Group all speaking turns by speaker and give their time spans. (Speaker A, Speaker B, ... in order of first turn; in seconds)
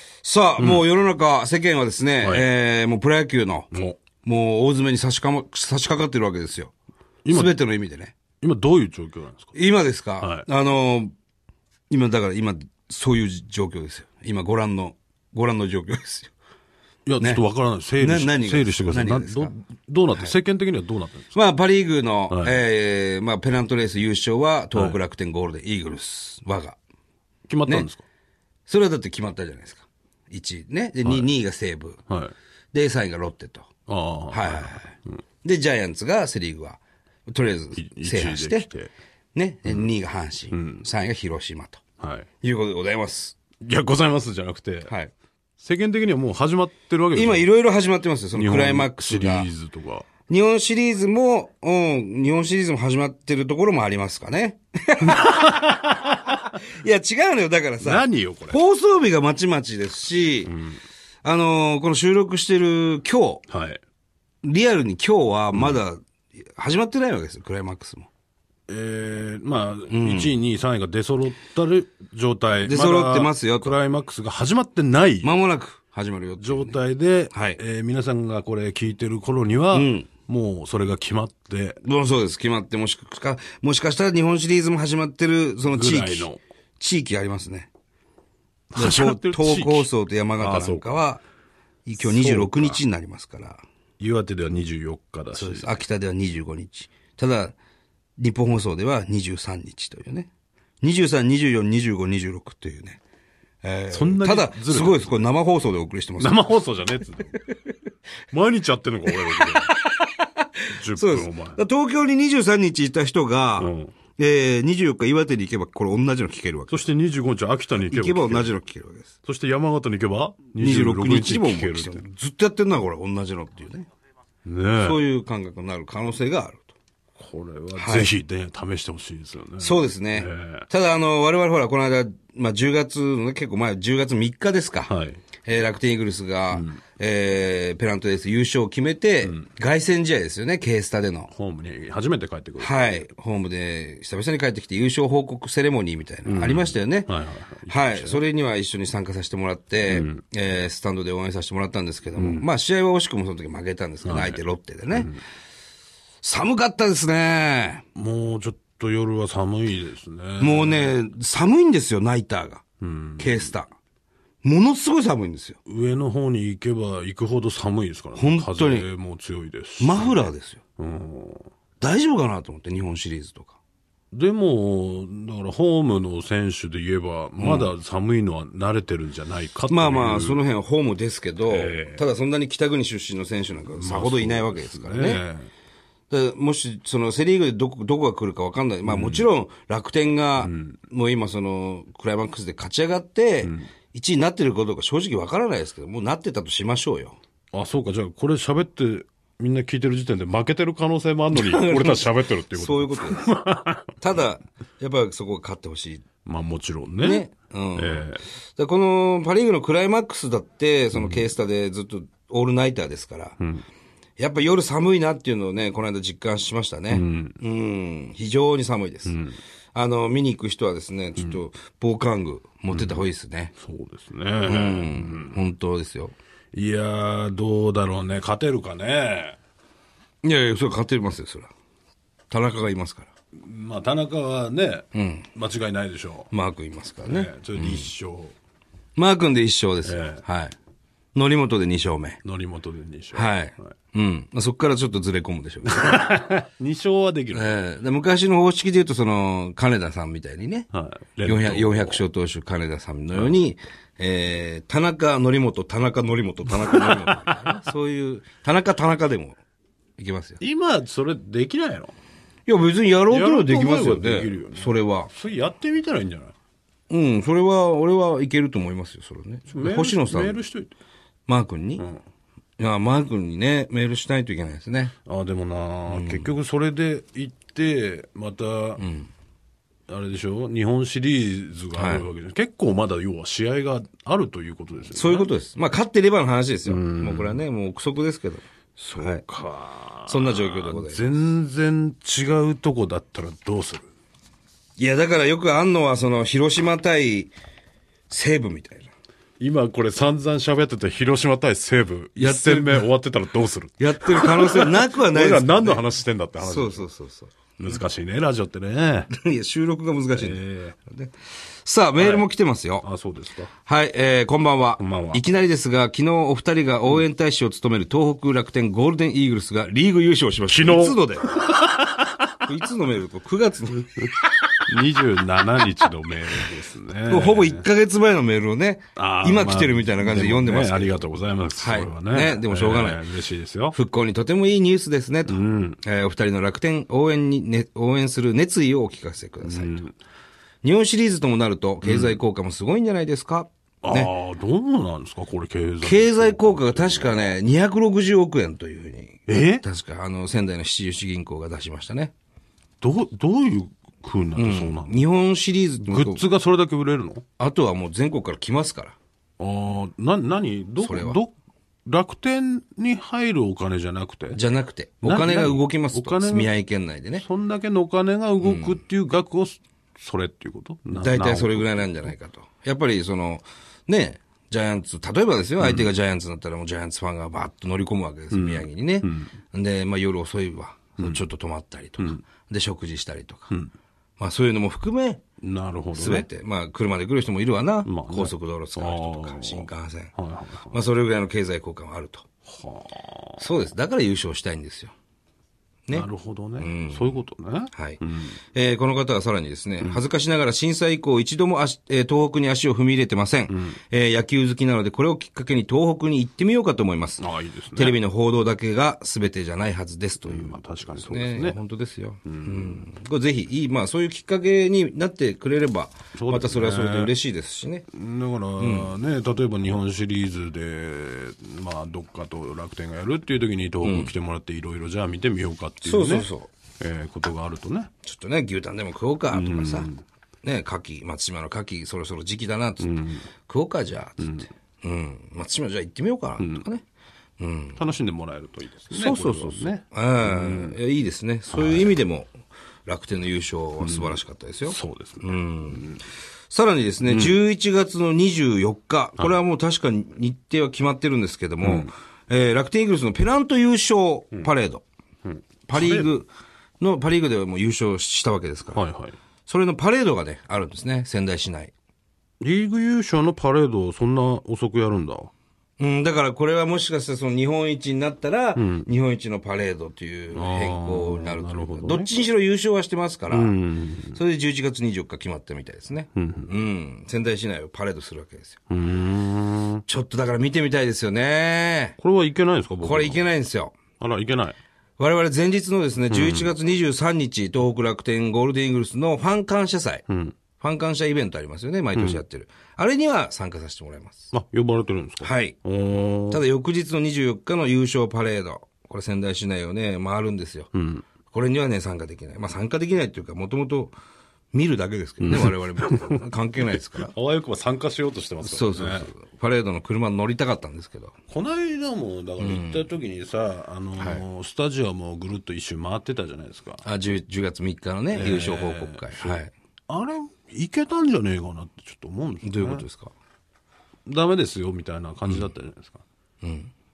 Speaker A: 0.2-3.7, 4.2-6.7, 7.3-8.1, 9.5-11.1, 11.9-16.3, 18.0-19.5, 21.3-26.8, 28.7-32.0, 32.7-33.7, 34.3-34.9, 35.4-38.7, 39.3-41.8, 42.4-43.4, 44.9-45.1, 47.1-49.5, 50.3-60.5, 61.2-63.5, 64.4-68.1, 69.9-70.3, 72.6-73.7, 75.2-76.8, 77.3-77.6, 79.7-80.1, 81.8-87.7, 88.7-91.2, 91.8-93.6, 95.3-97.5, 98.2-100.3, 100.8-103.0, 103.6-106.5, 109.2-116.8, 117.8-119.1, 120.6-123.9, 124.8-126.7, 127.7-128.1, 129.6-141.3, 142.6-147.1, 147.7-155.1, 156.2-157.8, 160.4-162.6, 163.2-163.7, 164.4-165.6, 168.1-168.9, 169.8-170.6, 171.8-173.6, 177.4-177.7, 179.7-185.2, 186.1-197.2, 201.3-203.3, 204.0-206.0, 207.0-213.4, 214.2-219.2, 219.7-223.5, 224.4-226.1, 230.2-231.5, 232.3-233.1, 234.9-235.3, 236.3-237.9, 238.9-240.5, 241.1-242.2, 243.1-246.0, 247.3-250.7, 251.2-259.4, 260.0-260.4, 262.5-265.1, 266.9-270.4, 271.3-271.8, 272.6-274.9, 275.9-276.3, 278.8-279.1, 281.7-282.0, 284.9-289.2, 290.1-291.1, 294.8-297.3, 298.1-298.9, 302.1-302.9, 303.8-305.8, 306.4-307.8, 309.1-312.9, 313.6-321.3, 322.4-324.3, 327.1-333.0, 333.7-339.8, 340.6-344.1, 345.8-352.1, 354.4-356.2, 357.4-358.9, 360.8-361.2, 364.3-367.2, 368.4-368.8, 370.9-383.5, 384.2-385.2, 385.9-390.1, 390.7-392.2, 393.4-394.9, 396.6-397.2, 397.7-407.2, 407.8-417.9, 418.6-418.9, 423.8-424.1, 425.8-426.5, 428.0-429.9, 430.4-436.8, 437.4-437.8, 438.9-445.8, 446.5-454.8, 455.7-458.8, 459.5-461.7, 465.8-473.6, 474.1-478.6, 479.9-481.9, 482.8-483.8, 485.0-490.0, 490.6-494.3, 495.2-495.6, 496.3-500.7, 501.3-503.9, 504.5-507.1, 508.4-511.1, 512.4-512.9, 514.0-514.2, 516.8-519.5, 522.4-523.1, 526.4-526.7
Speaker B: 0.6-0.8, 2.2-2.5, 3.7-4.0, 7.2-7.5, 8.4-9.5, 10.2-10.5, 17.1-21.3, 22.3-22.5, 27.5-28.0, 32.1-32.3, 33.9-35.2, 37.7-38.9, 40.5-40.9, 42.0-42.3, 43.6-44.9, 45.6-47.5, 48.3-50.1, 55.0-56.4, 57.8-58.6, 60.5-60.8, 63.5-63.8, 68.7-75.3, 76.4-81.8, 85.6-86.4, 88.7-91.0, 92.0-92.8, 94.0-95.7, 103.9-105.2, 106.2-107.4, 108.3-109.7, 110.7-111.6, 113.6-113.9, 116.7-118.5, 119.2-122.0, 124.4-125.0, 127.2-130.7, 134.9-135.2, 136.5-136.8, 141.3-143.1, 146.2-148.2, 149.9-150.2, 152.2-152.5, 154.0-154.4, 154.9-155.2, 157.9-160.9, 162.8-163.5, 165.7-171.5, 174.1-180.4, 181.5-182.0, 183.7-185.5, 188.8-189.3, 190.4-190.8, 193.4-193.7, 197.5-204.0, 206.2-208.2, 210.9-211.2, 213.4-213.7, 216.9-217.4, 219.0-219.4, 222.7-223.0, 223.6-225.4, 226.5-229.4, 233.3-236.3, 237.0-238.3, 239.8-240.2, 242.2-243.7, 245.7-247.6, 250.7-252.0, 253.1-253.4, 256.5-257.6, 260.4-261.9, 263.1-266.3, 269.5-270.7, 275.1-278.8, 279.9-285.3, 286.6-287.4, 288.8-293.8, 299.4-306.9, 307.6-309.1, 310.1-310.8, 312.0-312.3, 312.8-313.5, 314.8-315.2, 320.5-322.4, 324.7-327.6, 328.9-333.8, 335.3-335.8, 339.4-339.9, 341.8-342.2, 343.8-347.4, 349.3-349.6, 352.8-355.0, 355.8-357.2, 359.4-361.3, 361.9-364.4, 365.0-366.5, 367.2-372.1, 375.6-375.9, 378.3-379.3, 385.4-386.3, 387.8-390.8, 392.5-393.5, 395.9-398.4, 403.5-403.8, 407.2-408.0, 410.2-411.6, 412.2-412.8, 416.1-417.1, 417.9-426.3, 426.8-427.9, 429.3-430.0, 432.8-433.2, 434.2-434.5, 436.4-436.6, 437.8-440.8, 441.5-441.9, 443.8-446.0, 447.0-447.4, 451.6-451.9, 455.2-456.1, 458.7-459.1, 462.4-465.3, 468.6-468.9, 470.3-472.1, 473.3-474.2, 476.1-476.5, 478.7-479.8, 482.0-483.3, 484.0-484.6, 486.1-486.5, 490.1-490.4, 491.9-492.2, 494.3-496.4, 500.7-501.0, 505.2-509.1, 511.3-516.8, 518.1-522.8, 524.0-526.0